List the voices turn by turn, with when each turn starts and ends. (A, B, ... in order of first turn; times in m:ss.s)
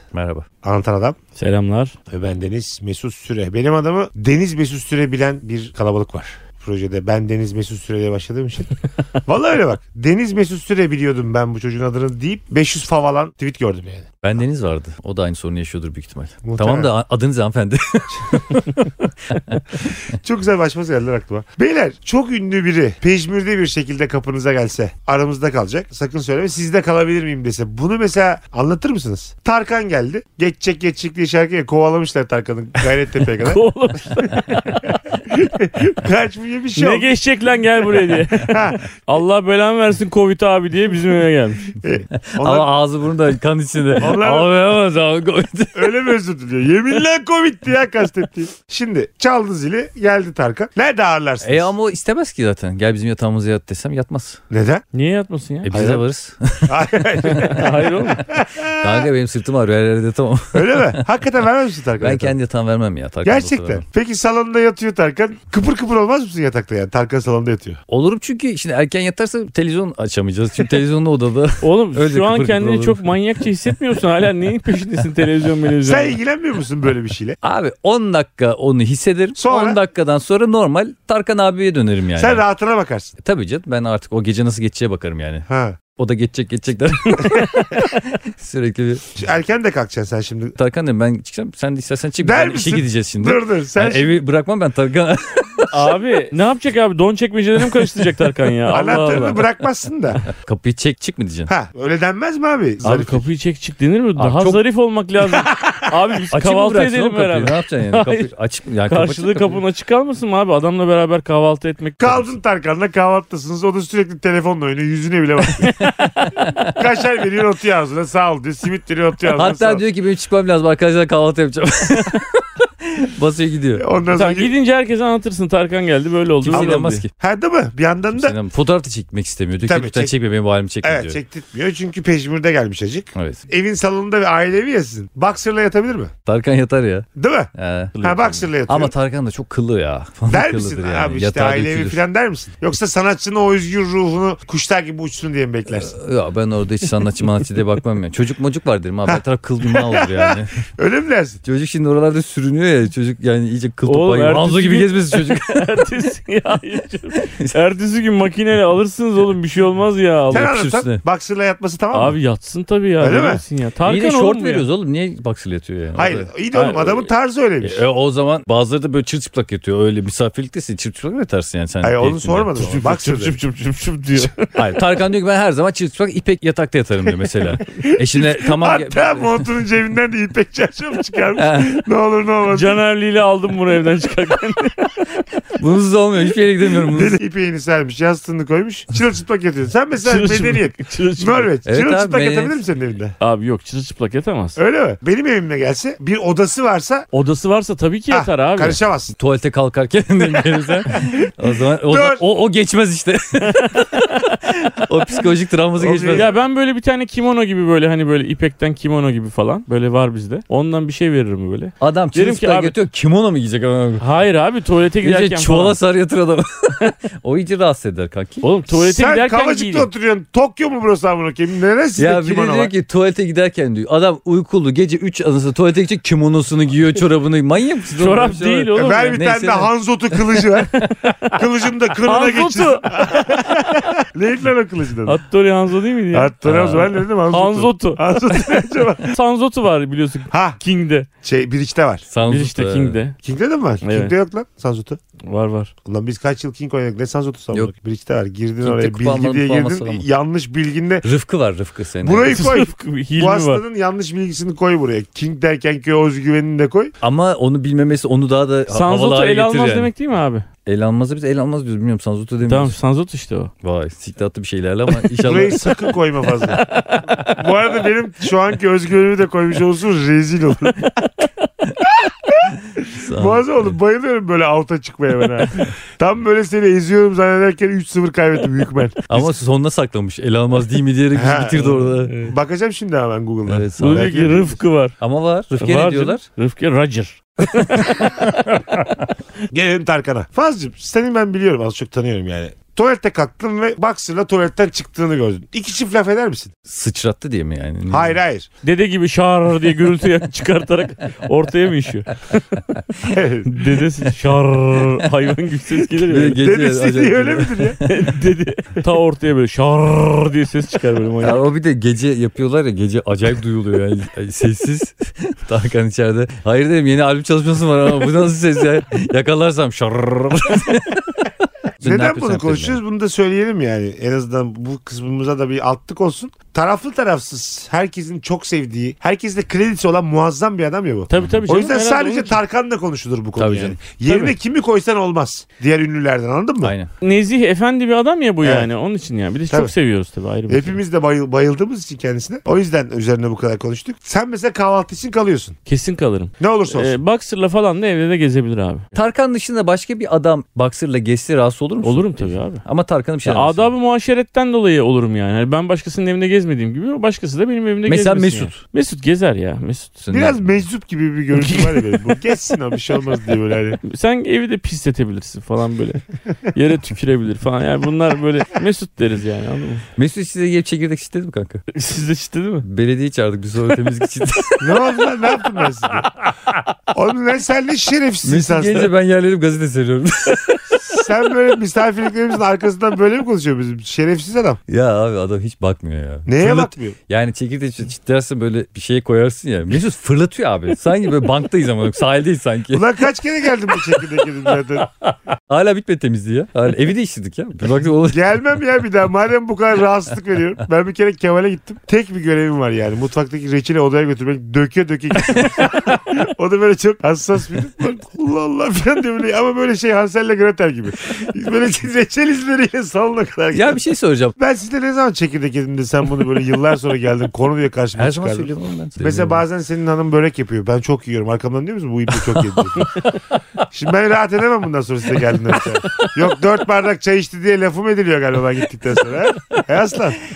0:00.1-0:00.5 A
0:00.6-0:01.2 B
0:01.4-0:01.9 C
0:02.1-0:08.8 B
0:09.3-0:14.1 B
0:14.2-0:19.6 A
0:16.4-0:16.9 B
0:20.1-0:33.6 B
0:33.3-0:35.0 C
0:35.2-0:37.1 B
0:36.8-0:41.7 C
0:38.3-0:38.8 B
0:41.8-0:42.7 B
0:42.3-0:46.1 A
0:44.0-0:44.5 B
0:45.8-0:51.7 B
0:51.4-0:54.4 A
0:54.5-0:54.8 B
0:54.9-0:55.7 C
0:55.6-0:56.8 A
0:55.7-0:56.0 B
0:56.7-0:59.0 B
0:57.2-0:58.3 C
0:57.3-0:57.6 A
0:58.7-1:01.0 A
1:00.5-1:02.4 B
1:02.0-1:03.8 A
1:03.2-1:07.8 B
1:07.9-1:13.2 A
1:11.6-1:16.2 C
1:15.8-1:17.4 B
1:17.4-1:22.4 A
1:19.4-1:19.8 B
1:22.2-1:23.2 B
1:23.2-1:25.5 A
1:25.5-1:25.8 B
1:26.0-1:29.0 A
1:29.2-1:30.6 B
1:30.6-1:35.8 A
1:32.2-1:34.1 B
1:35.7-1:39.4 C
1:38.7-1:40.2 B
1:40.3-1:41.5 A
1:41.5-1:43.2 B
1:42.8-1:48.3 C
1:44.2-1:44.6 A
1:45.3-1:45.9 B
1:46.3-1:49.6 A
1:48.9-1:52.4 C
1:52.0-1:55.7 B
1:55.5-1:56.6 C
1:56.3-1:56.7 A
1:56.8-1:59.8 B
1:59.2-2:03.8 A
2:03.8-2:04.5 B
2:04.1-2:07.0 C
2:06.4-2:07.1 A
2:06.5-2:08.4 B
2:08.1-2:11.2 A
2:09.7-2:10.2 B
2:10.8-2:16.1 B
2:13.2-2:13.4 A
2:16.3-2:18.0 A
2:17.2-2:17.5 B
2:18.0-2:18.5 C
2:18.0-2:18.9 B
2:18.7-2:22.0 A
2:20.3-2:26.0 B
2:25.8-2:30.5 A
2:29.1-2:31.4 B
2:31.4-2:35.9 A
2:33.8-2:40.5 C
2:37.2-2:37.5 A
2:40.3-2:42.2 B
2:40.3-2:41.0 A
2:41.9-2:44.6 C
2:43.0-2:43.4 B
2:43.9-2:46.3 A
2:46.0-2:47.8 B
2:46.5-2:47.1 C
2:47.6-2:52.8 A
2:51.8-2:53.4 B
2:52.6-2:54.5 C
2:54.6-2:59.3 A
2:57.3-3:02.8 B
3:01.4-3:01.8 A
3:02.5-3:05.1 C
3:05.6-3:07.2 A
3:06.9-3:13.2 B
3:10.0-3:11.5 C
3:11.7-3:12.6 A
3:13.2-3:14.6 C
3:14.6-3:17.1 B
3:17.1-3:18.8 C
3:18.1-3:19.1 B
3:19.2-3:26.3 A
3:20.9-3:21.3 B
3:21.9-3:22.2 B
3:25.8-3:26.3 B
3:26.1-3:32.8 C
3:31.8-3:34.0 A
3:34.0-3:35.8 C
3:35.0-3:38.5 A
3:38.4-3:39.9 C
3:38.7-3:42.7 B
3:42.0-3:49.7 A
3:48.0-3:49.3 C
3:48.8-3:55.2 B
3:50.7-3:51.4 C
3:52.0-3:53.9 C
3:55.0-4:01.1 C
3:56.1-3:59.2 B
3:56.4-3:56.9 A
4:00.3-4:00.6 B
4:01.2-4:02.1 B
4:02.1-4:03.0 A
4:02.2-4:03.2 C
4:03.2-4:05.0 B
4:03.8-4:04.1 C
4:05.2-4:05.7 C
4:05.8-4:11.1 B
4:08.6-4:10.1 A
4:11.0-4:12.4 A
4:12.0-4:16.9 B
4:12.3-4:13.6 C
4:17.0-4:19.9 A
4:18.7-4:20.5 C
4:20.6-4:22.8 A
4:22.5-4:23.5 C
4:23.6-4:25.7 A
4:25.2-4:26.7 B
4:26.6-4:27.3 C
4:27.2-4:30.9 B
4:31.8-4:39.3 B
4:32.9-4:33.8 A
4:39.1-4:42.2 A
4:41.1-4:44.6 B
4:42.1-4:42.3 C
4:43.5-4:44.4 A
4:43.8-4:45.0 C
4:45.0-4:46.2 A
4:45.6-4:48.8 C
4:49.5-4:56.5 B
4:56.7-4:58.2 A
4:57.9-4:58.5 B
4:58.6-5:02.6 C
5:03.0-5:03.6 B
5:03.4-5:06.4 C
5:05.9-5:07.9 A
5:06.4-5:07.8 B
5:07.8-5:11.4 C
5:11.2-5:21.2 A
5:21.8-5:36.8 B
5:21.8-5:22.8 A
5:31.1-5:32.4 C
5:33.4-5:33.8 A
5:34.1-5:34.3 C
5:36.6-5:36.9 A
5:37.0-5:40.8 C
5:38.4-5:38.7 B
5:40.5-5:45.6 B
5:45.7-5:48.9 C
5:46.4-5:47.0 B
5:48.9-5:53.7 A
5:51.8-5:52.6 C
5:53.2-6:00.1 C
5:57.9-5:58.6 A
6:00.0-6:00.6 A
6:00.1-6:03.8 B
6:01.4-6:02.0 C
6:03.8-6:09.9 C
6:10.0-6:11.6 A
6:11.7-6:12.7 C
6:12.6-6:14.8 A
6:14.6-6:16.1 B
6:16.9-6:18.9 B
6:18.2-6:20.8 A
6:20.9-6:24.6 B
6:24.7-6:32.9 A
6:26.3-6:27.0 B
6:32.7-6:34.9 B
6:33.7-6:38.4 A
6:38.1-6:53.8 B
6:45.3-6:45.6 A
6:53.5-6:54.4 A
6:54.4-7:03.0 B
6:58.0-6:59.4 A
7:03.7-7:10.2 B